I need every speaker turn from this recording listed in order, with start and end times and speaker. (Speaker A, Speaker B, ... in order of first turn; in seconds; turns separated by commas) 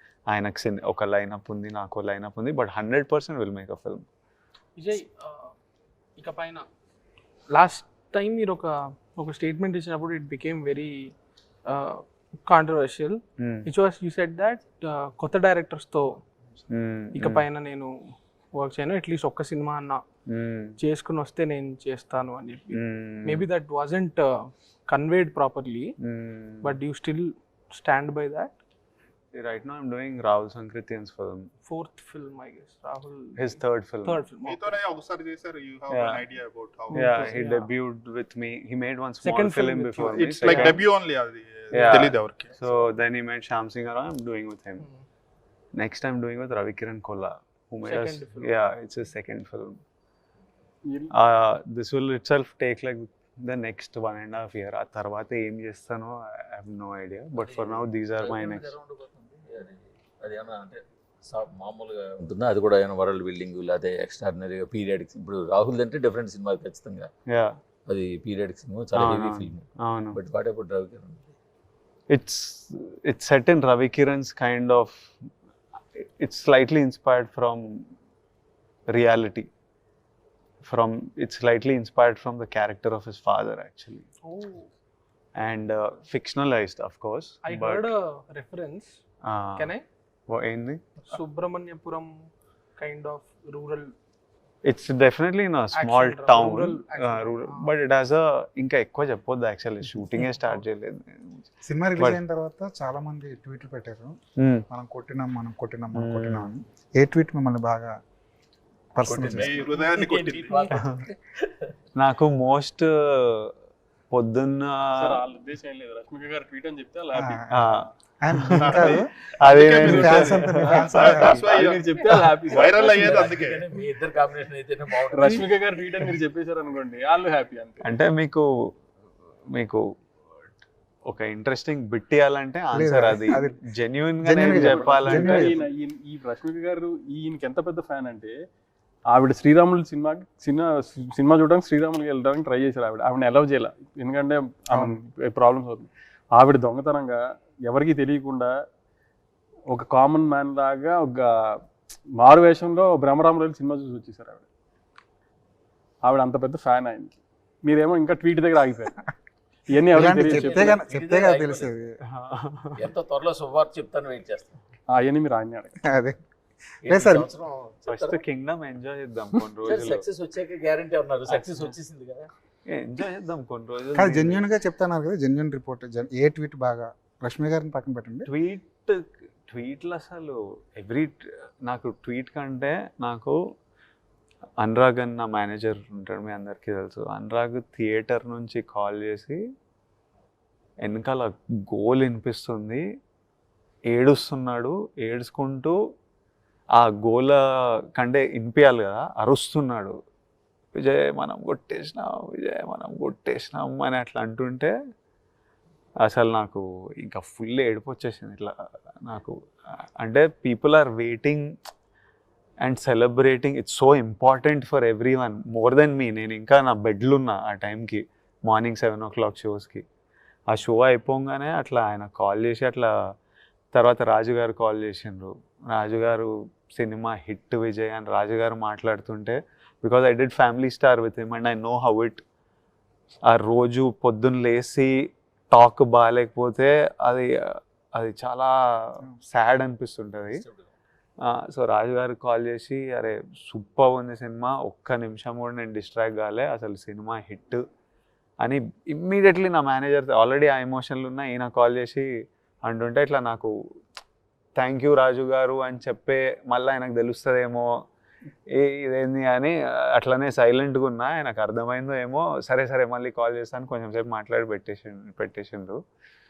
Speaker A: 0.3-4.0, Speaker B: 4.8-5.3, Speaker B: 6.2-6.6, Speaker B: 7.5-8.6, Speaker B: 9.2-10.9, Speaker B: 12.4-16.0, Speaker A: 13.4-13.7, Speaker A: 16.7-17.4, Speaker B: 17.3-17.9, Speaker B: 18.6-20.0, Speaker A: 20.3-20.8, Speaker B: 20.8-22.8, Speaker A: 22.8-23.5, Speaker B: 23.3-24.2, Speaker B: 24.9-25.9, Speaker A: 26.0-26.8, Speaker B: 26.6-28.5, Speaker A: 29.3-31.5, Speaker B: 31.7-33.4, Speaker A: 33.4-34.2, Speaker B: 34.0-34.7, Speaker C: 34.4-37.1, Speaker A: 35.9-36.2, Speaker A: 36.9-40.8, Speaker B: 37.0-37.6, Speaker B: 39.2-40.7, Speaker C: 40.1-42.5, Speaker A: 41.7-44.9, Speaker A: 45.7-49.8, Speaker B: 47.9-48.5, Speaker D: 50.9-51.1, Speaker A: 51.1-58.7, Speaker E: 57.4-67.1, Speaker A: 67.3-67.6, Speaker E: 67.9-71.3, Speaker A: 68.9-70.2, Speaker A: 72.1-75.1, Speaker A: 76.0-77.7, Speaker A: 78.9-79.5, Speaker A: 80.6-84.0, Speaker B: 84.3-84.7, Speaker A: 85.3-87.9, Speaker B: 87.5-88.9, Speaker A: 89.2-89.7, Speaker A: 90.3-90.8, Speaker B: 91.1-92.1, Speaker B: 92.8-93.8, Speaker A: 94.6-102.2, Speaker B: 95.8-97.7, Speaker F: 101.6-104.1, Speaker F: 104.7-107.9, Speaker A: 106.0-106.5, Speaker F: 108.9-109.7, Speaker E: 109.1-111.5, Speaker C: 109.3-110.7, Speaker A: 112.0-113.5, Speaker A: 114.1-115.2, Speaker D: 115.0-117.4, Speaker F: 117.1-119.1, Speaker A: 117.5-121.4, Speaker C: 118.6-120.3, Speaker F: 119.7-121.5, Speaker D: 119.8-123.2, Speaker C: 120.9-121.9, Speaker C: 122.5-123.7, Speaker E: 122.5-125.5, Speaker D: 125.1-127.8, Speaker A: 127.8-128.5, Speaker A: 129.5-129.8, Speaker A: 131.1-135.6, Speaker F: 132.7-133.6, Speaker F: 134.2-135.6, Speaker D: 134.4-138.3, Speaker D: 139.1-148.5, Speaker F: 144.7-145.0, Speaker D: 149.7-151.6, Speaker D: 152.2-154.4, Speaker D: 156.0-159.0, Speaker D: 159.7-160.8, Speaker F: 159.8-161.9, Speaker E: 160.0-161.7, Speaker A: 162.1-162.8, Speaker E: 162.8-164.6, Speaker D: 164.9-165.7, Speaker F: 165.9-166.2, Speaker E: 166.8-168.2, Speaker F: 166.8-167.3, Speaker A: 167.9-170.0, Speaker E: 169.6-172.3, Speaker A: 171.3-171.7, Speaker A: 172.7-174.5, Speaker F: 173.9-178.3, Speaker A: 178.3-183.4, Speaker A: 184.6-189.4, Speaker A: 190.8-192.8, Speaker A: 193.9-195.7, Speaker A: 196.8-197.4, Speaker A: 197.9-199.9, Speaker A: 200.8-204.7, Speaker A: 206.0-211.4, Speaker A: 212.6-219.8, Speaker A: 220.5-222.9, Speaker A: 223.7-232.2, Speaker A: 233.3-234.9, Speaker A: 235.5-240.4, Speaker E: 240.3-240.7, Speaker A: 241.3-247.6, Speaker A: 248.4-252.1, Speaker A: 252.6-253.5, Speaker A: 254.6-257.7, Speaker A: 258.5-265.8